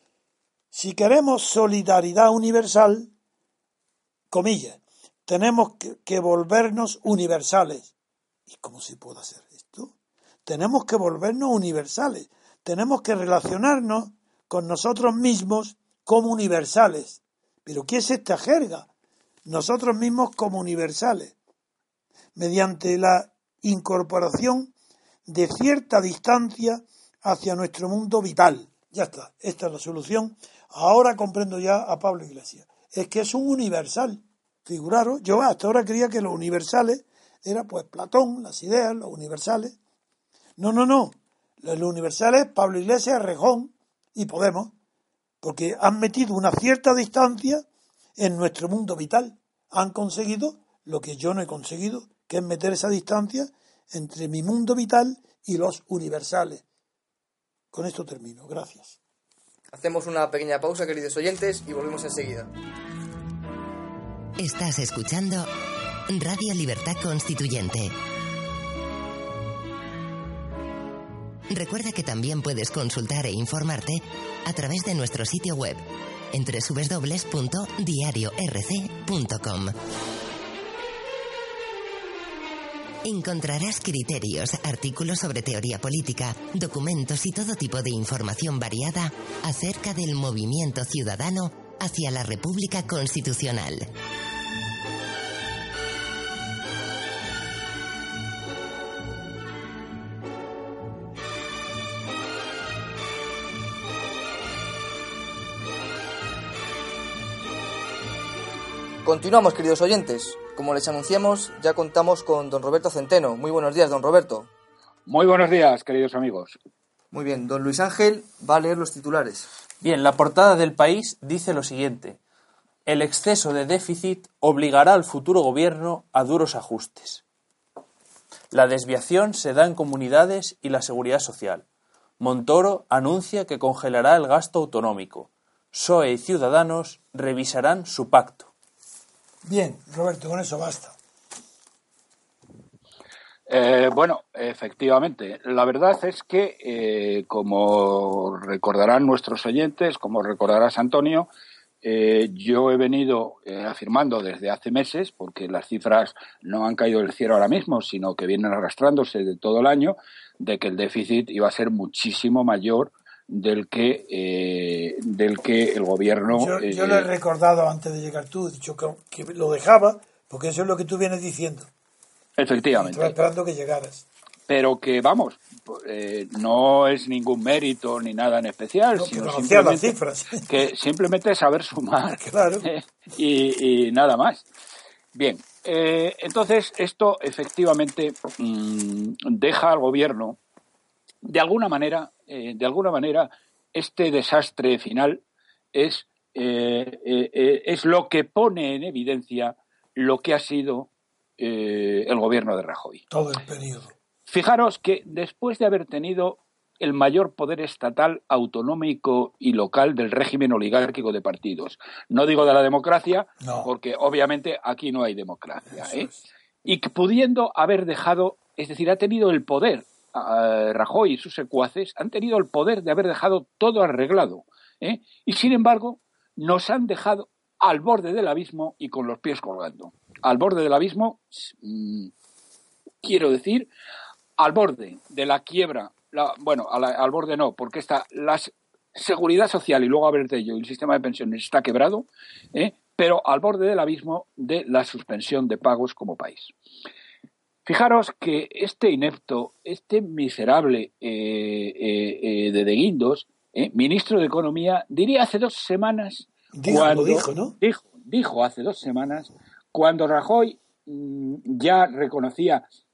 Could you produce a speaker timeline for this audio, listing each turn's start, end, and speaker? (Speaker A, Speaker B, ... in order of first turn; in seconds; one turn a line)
Speaker A: 0.7-3.1
Speaker A: 4.3-7.9
Speaker A: 8.5-9.9
Speaker A: 10.4-18.9
Speaker A: 19.4-21.3
Speaker A: 22.4-24.7
Speaker A: 25.3-39.8
Speaker A: 40.6-44.7
Speaker A: 45.4-47.6
Speaker A: 48.2-56.6
Speaker A: 57.7-59.0
Speaker B: 59.7-62.5
Speaker C: 64.4-65.5
Speaker C: 66.1-67.9
Speaker C: 71.5-79.8
Speaker C: 83.0-93.9
Speaker B: 109.0-114.5
Speaker D: 115.0-116.6
Speaker B: 117.1-119.5
Speaker E: 119.8-122.2
Speaker E: 122.8-127.2
Speaker E: 128.5-131.6
Speaker E: 132.2-138.5
Speaker A: 139.4-140.9
Speaker D: 143.5-151.3
Speaker D: 151.8-167.1
Speaker A: 166.3-171.7
Speaker D: 172.4-173.2
Speaker A: 172.7-174.1
Speaker D: 174.5-184.5
Speaker A: 178.9-180.4
Speaker A: 182.2-182.7
Speaker D: 185.1-190.4
Speaker D: 191.2-195.2
Speaker D: 195.7-203.0
Speaker A: 203.1-203.9
Speaker D: 204.3-216.1
Speaker A: 213.4-213.7
Speaker A: 215.7-216.2
Speaker D: 216.6-232.1
Speaker D: 233.0-233.7
Speaker D: 234.4-246.5
Speaker D: 247.7-262.6
Speaker A: 256.5-257.5